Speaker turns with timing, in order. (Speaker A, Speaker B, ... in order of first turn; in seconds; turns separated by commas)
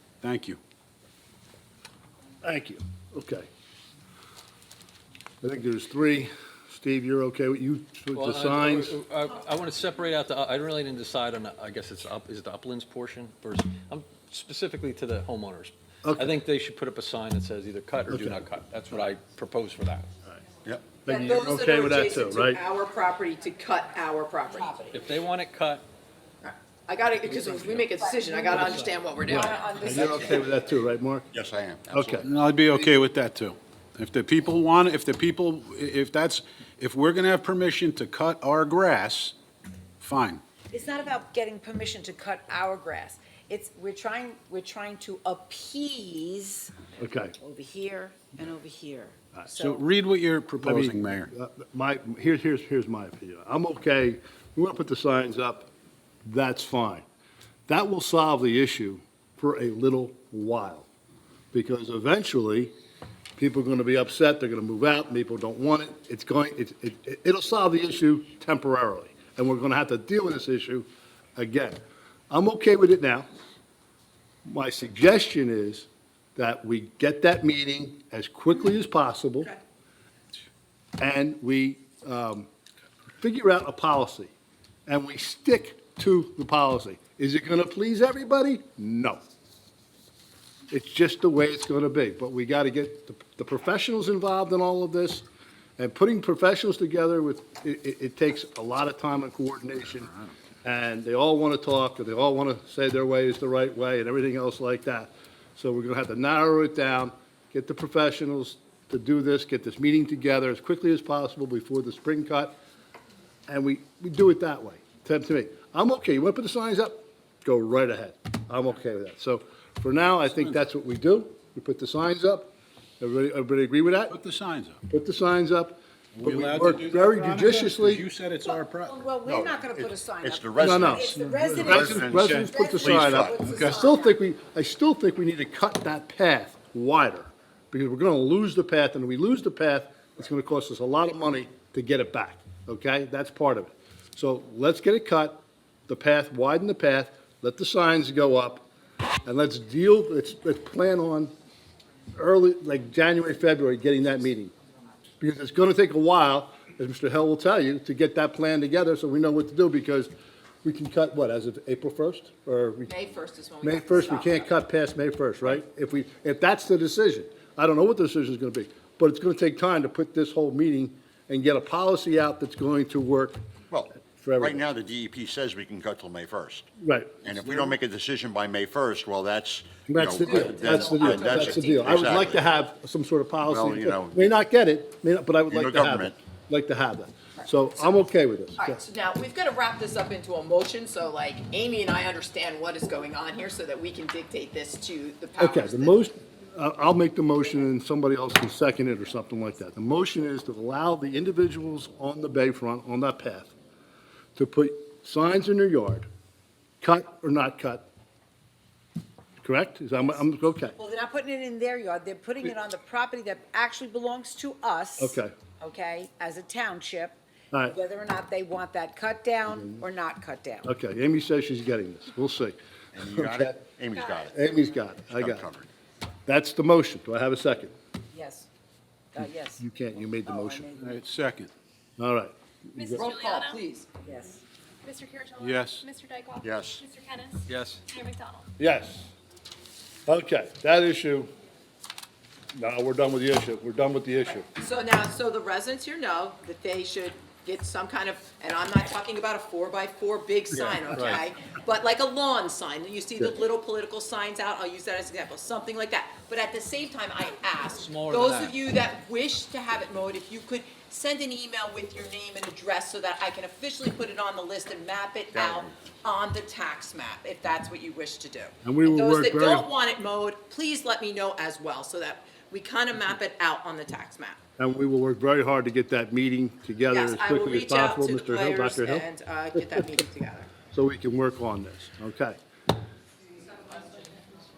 Speaker A: 0.2-0.6, Speaker B: 2.4-3.5, Speaker B: 5.4-8.9, Speaker C: 8.1-20.1, Speaker B: 16.0-16.3, Speaker B: 18.1-18.4, Speaker D: 20.6-20.9, Speaker B: 21.0-22.6, Speaker E: 21.1-24.8, Speaker F: 24.6-25.0, Speaker C: 24.9-25.9, Speaker E: 26.4-29.8, Speaker F: 27.3-30.5, Speaker B: 29.4-31.3, Speaker D: 31.3-32.3, Speaker B: 31.9-32.2, Speaker A: 32.0-39.4, Speaker A: 40.0-40.4, Speaker F: 40.7-46.8, Speaker B: 47.0-47.4, Speaker F: 47.4-49.9, Speaker A: 49.5-51.3, Speaker B: 50.6-55.7, Speaker B: 56.2-57.0, Speaker B: 57.7-60.9, Speaker B: 61.5-62.7, Speaker B: 63.4-71.8, Speaker B: 72.3-73.3, Speaker B: 74.5-79.5, Speaker B: 81.0-82.5, Speaker B: 83.2-84.3, Speaker B: 84.9-89.2, Speaker B: 90.7-95.2, Speaker B: 95.8-100.1, Speaker B: 100.6-112.6, Speaker B: 113.5-124.2, Speaker A: 124.1-124.8, Speaker B: 124.9-128.1, Speaker A: 126.2-129.1, Speaker F: 128.4-134.2, Speaker D: 129.3-131.1, Speaker B: 130.6-148.7, Speaker D: 131.6-132.4, Speaker A: 132.1-133.7, Speaker D: 132.9-133.4, Speaker B: 149.2-151.3, Speaker B: 152.2-154.5, Speaker B: 155.2-160.1, Speaker B: 160.6-162.9, Speaker E: 162.9-164.5, Speaker B: 163.6-173.4, Speaker D: 173.7-176.7, Speaker B: 174.1-174.6, Speaker B: 176.8-177.7, Speaker D: 177.2-182.5, Speaker B: 179.9-188.8, Speaker E: 180.2-182.3, Speaker D: 183.5-184.3, Speaker D: 185.5-186.2, Speaker E: 188.6-196.0, Speaker B: 195.4-203.5, Speaker B: 204.4-206.1, Speaker B: 206.8-207.9, Speaker B: 209.4-210.8, Speaker F: 210.8-220.7, Speaker B: 215.0-215.3, Speaker B: 219.5-219.8, Speaker B: 220.7-223.6, Speaker D: 222.9-224.4, Speaker B: 224.2-225.5, Speaker D: 225.1-225.7, Speaker B: 226.3-227.7, Speaker F: 228.1-228.5, Speaker F: 229.1-229.6, Speaker B: 229.6-230.7, Speaker F: 230.3-230.9, Speaker A: 230.8-231.5, Speaker B: 232.0-233.1, Speaker G: 232.8-233.6, Speaker E: 233.0-233.9, Speaker F: 234.0-234.4, Speaker G: 234.9-237.4, Speaker A: 235.4-235.8, Speaker D: 236.4-236.8, Speaker C: 237.5-237.8, Speaker G: 237.9-238.4, Speaker B: 238.6-239.1, Speaker B: 240.1-241.3, Speaker B: 242.6-244.5, Speaker E: 244.6-274.4, Speaker C: 250.6-251.2, Speaker C: 257.8-258.6, Speaker D: 265.4-265.7, Speaker B: 268.6-269.7, Speaker B: 274.6-279.1, Speaker E: 276.9-280.6, Speaker B: 280.7-282.4, Speaker G: 283.7-284.2